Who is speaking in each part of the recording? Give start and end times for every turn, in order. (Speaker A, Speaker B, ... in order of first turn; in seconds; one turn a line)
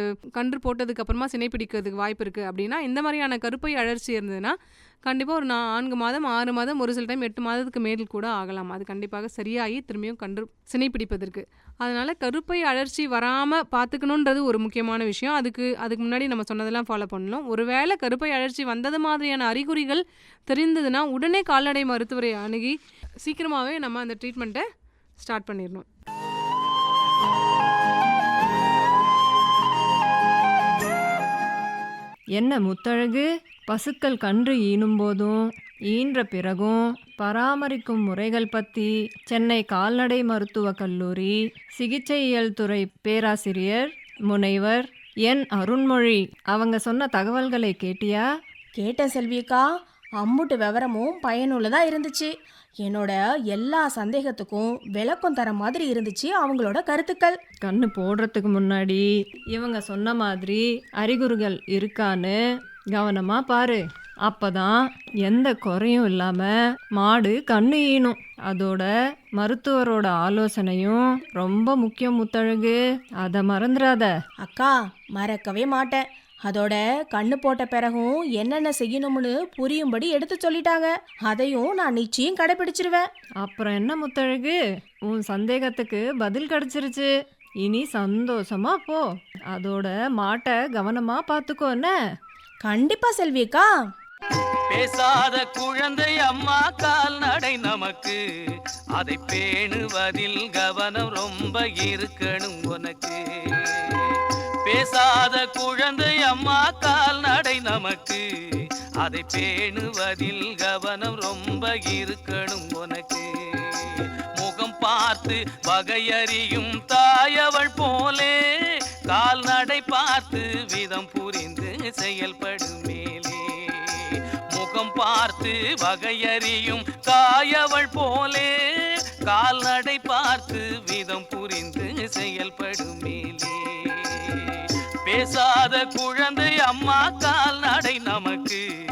Speaker A: 0.3-24.6
Speaker A: 25.2-25.9
Speaker B: 32.4-48.2
Speaker C: 48.8-49.6
Speaker C: 50.2-52.3
Speaker C: 52.8-57.4
Speaker B: 57.6-62.4
Speaker B: 62.9-74.1
Speaker C: 74.4-83.0
Speaker B: 83.4-87.1
Speaker B: 87.6-91.9
Speaker C: 92.6-93.7
Speaker D: 94.7-98.2
Speaker D: 98.9-108.2
Speaker D: 109.0-138.6